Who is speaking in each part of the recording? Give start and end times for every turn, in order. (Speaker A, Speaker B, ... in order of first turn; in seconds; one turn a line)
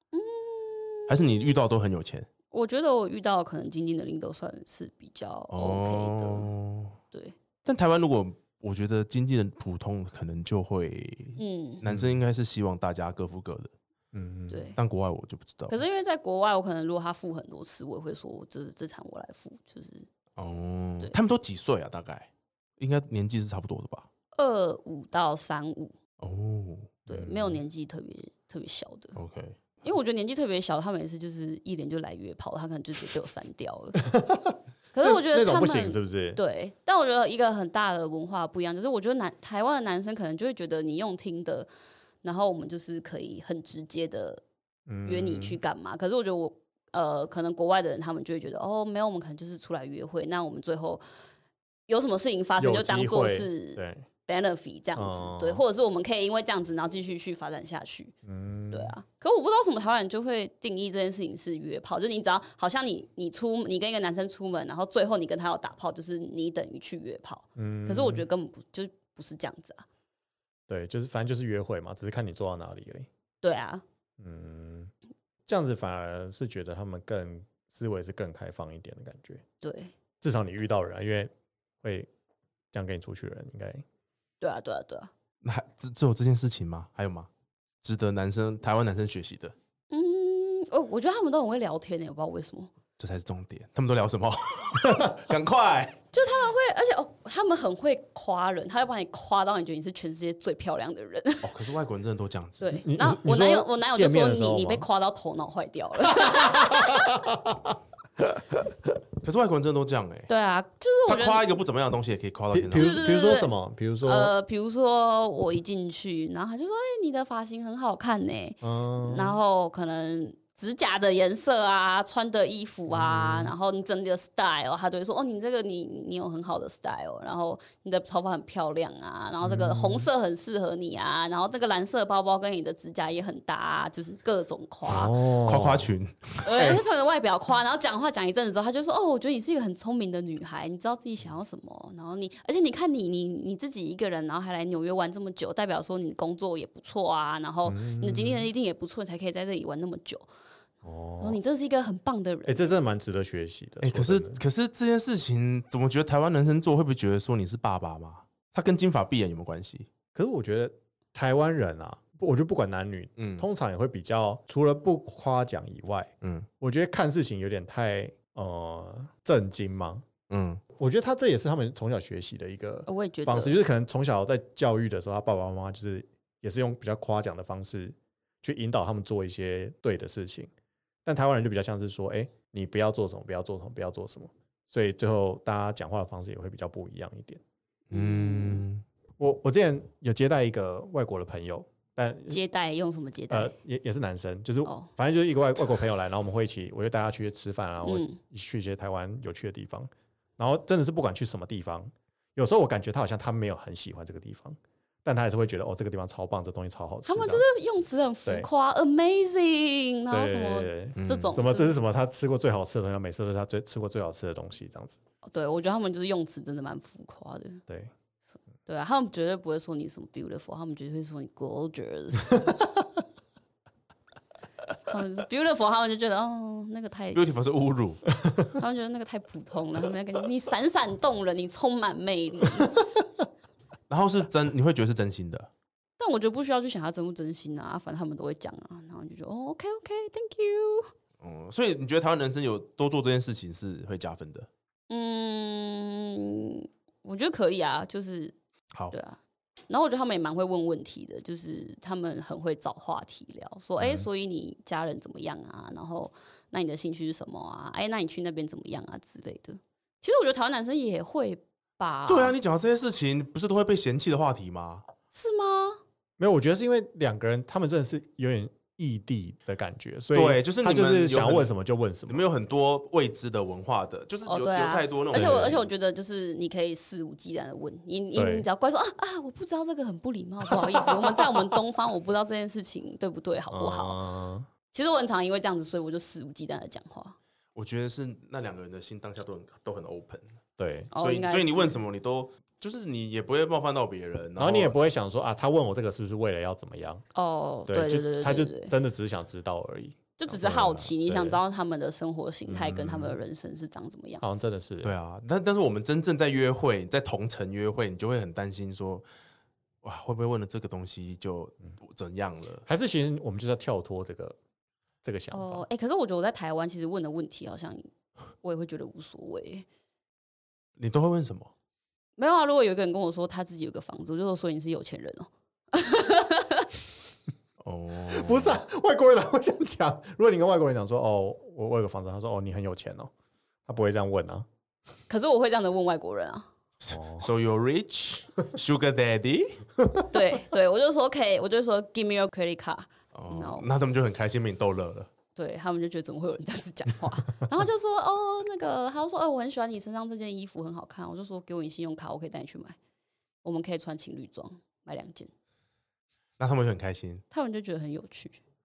Speaker A: 0.1-1.2
Speaker B: 1.1-2.3
Speaker A: 2.5-6.5
Speaker B: 5.5-7.0
Speaker B: 7.6-13.7
Speaker A: 11.4-11.8
Speaker C: 11.9-12.2
Speaker C: 14.1-14.7
Speaker A: 14.5-14.8
Speaker B: 14.8-15.8
Speaker A: 15.7-20.1
Speaker B: 20.4-24.1
Speaker A: 24.4-25.9
Speaker B: 26.2-27.5
Speaker A: 27.1-29.1
Speaker B: 29.1-29.6
Speaker A: 29.8-34.1
Speaker C: 34.0-36.4
Speaker A: 34.9-41.7
Speaker A: 42.2-44.4
Speaker C: 44.9-45.6
Speaker A: 45.0-51.0
Speaker A: 51.9-58.1
Speaker C: 52.6-54.0
Speaker C: 55.0-55.6
Speaker C: 58.2-58.9
Speaker A: 58.7-69.9
Speaker C: 67.5-68.2
Speaker C: 70.7-73.1
Speaker A: 73.4-73.8
Speaker C: 74.2-74.9
Speaker C: 75.5-79.4
Speaker A: 79.6-79.9
Speaker C: 80.2-81.3
Speaker C: 81.8-82.1
Speaker C: 82.7-83.8
Speaker A: 84.4-85.1
Speaker B: 85.4-87.3
Speaker B: 87.8-89.5
Speaker A: 89.9-92.7
Speaker B: 93.0-96.0
Speaker A: 96.1-101.5
Speaker B: 101.4-102.8
Speaker A: 102.6-107.3
Speaker C: 102.8-104.9
Speaker C: 106.1-108.7
Speaker B: 109.2-110.3
Speaker A: 110.3-111.5
Speaker B: 111.1-113.1
Speaker C: 112.5-114.3
Speaker A: 112.7-113.5
Speaker A: 114.0-135.1
Speaker C: 118.6-119.4
Speaker C: 122.9-123.5
Speaker C: 129.4-130.1
Speaker C: 134.9-135.9
Speaker B: 135.4-136.8
Speaker A: 136.4-150.3
Speaker C: 147.7-148.5
Speaker C: 150.8-151.4
Speaker A: 151.2-152.7
Speaker C: 152.5-154.4
Speaker B: 153.8-159.9
Speaker C: 160.1-170.1
Speaker B: 163.2-163.4
Speaker B: 166.2-166.5
Speaker B: 170.3-170.6
Speaker C: 170.8-180.5
Speaker A: 172.9-173.6
Speaker C: 181.0-187.4
Speaker B: 187.9-188.8
Speaker A: 187.9-188.6
Speaker C: 189.2-192.4
Speaker A: 192.3-193.5
Speaker C: 193.3-207.5
Speaker A: 197.8-198.2
Speaker A: 207.1-211.8
Speaker C: 210.1-215.0
Speaker B: 211.0-211.4
Speaker A: 215.2-217.6
Speaker A: 218.7-222.4
Speaker A: 224.9-227.2
Speaker B: 227.1-228.0
Speaker A: 228.5-232.8
Speaker B: 233.9-235.5
Speaker A: 236.0-240.9
Speaker B: 241.2-244.5
Speaker A: 244.9-248.3
Speaker A: 248.9-262.4
Speaker C: 253.8-254.1
Speaker B: 262.1-264.9
Speaker A: 265.1-265.8
Speaker C: 266.2-272.2
Speaker B: 270.1-271.5
Speaker B: 272.1-275.7
Speaker A: 274.2-284.0
Speaker C: 275.1-275.5
Speaker C: 278.1-278.5
Speaker C: 280.6-281.3
Speaker C: 283.5-284.5
Speaker A: 284.7-287.1
Speaker B: 287.5-290.3
Speaker C: 290.6-290.9
Speaker A: 290.9-291.8
Speaker B: 291.0-294.8
Speaker C: 294.4-297.0
Speaker A: 297.1-298.7
Speaker C: 297.7-301.4
Speaker A: 300.2-304.4
Speaker C: 302.5-303.1
Speaker C: 304.2-304.9
Speaker B: 304.8-309.1
Speaker B: 309.8-312.6
Speaker C: 312.6-314.4
Speaker C: 315.0-315.6
Speaker A: 315.3-317.9
Speaker A: 318.4-319.7
Speaker B: 320.8-321.5
Speaker A: 322.2-326.7
Speaker B: 327.6-328.6
Speaker C: 328.1-333.1
Speaker C: 333.6-334.5
Speaker A: 335.1-336.5
Speaker B: 336.8-339.6
Speaker C: 336.9-337.2
Speaker A: 340.1-343.7
Speaker B: 343.1-345.1
Speaker A: 345.4-352.8
Speaker A: 353.4-355.3
Speaker B: 356.4-357.2
Speaker A: 357.3-358.4